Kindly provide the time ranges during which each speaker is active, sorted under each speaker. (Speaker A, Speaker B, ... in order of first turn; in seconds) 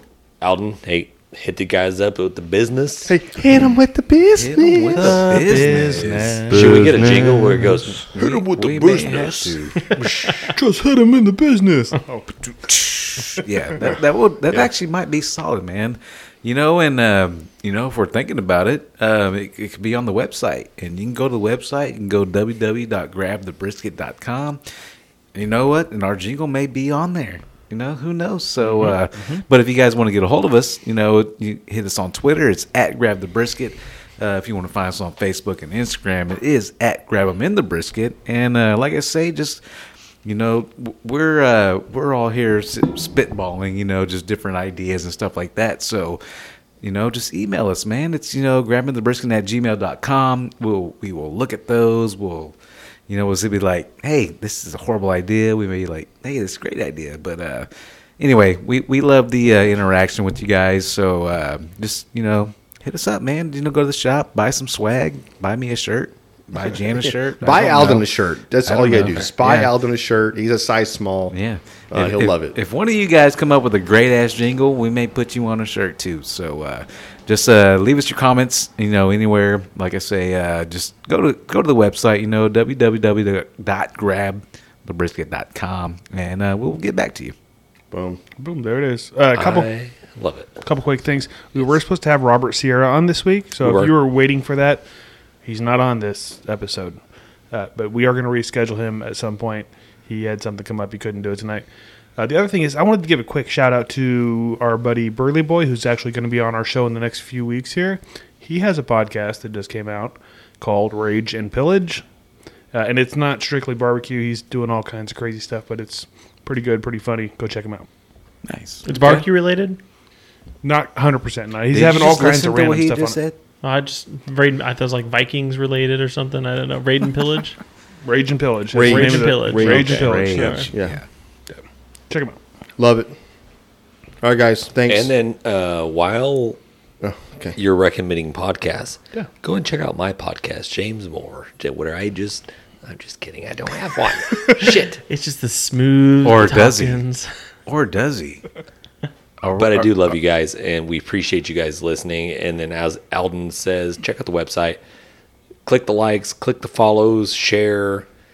Speaker A: 0.4-3.1, 5.0-5.2, 6.5-8.1, 89.3-90.6, 93.6-93.9, 134.9-136.6, 137.6-145.0, 149.6-154.8, 155.6-158.1
Speaker B: 3.0-5.7, 6.5-9.6, 67.4-71.4, 71.9-72.6, 87.9-88.2, 128.7-131.0, 132.8-133.1, 134.2-135.1, 137.0-137.6
Speaker C: 4.3-7.3, 8.1-9.8, 12.7-24.6, 25.3-39.6, 40.2-46.2, 46.8-52.5, 53.1-69.7, 71.3-87.3, 118.4-119.2, 121.7-123.4, 129.9-131.1, 146.2-147.0, 147.7-148.4, 149.4-150.2
Speaker D: 5.0-7.0, 9.9-12.6, 28.6-29.4, 88.4-89.7, 90.6-94.8, 95.4-97.0, 97.5-112.0, 112.7-117.9, 120.6-123.2, 128.0-130.7, 131.5-132.4
Speaker E: 9.8-10.5, 118.8-119.8, 123.6-127.6, 128.8-130.7, 145.1-147.3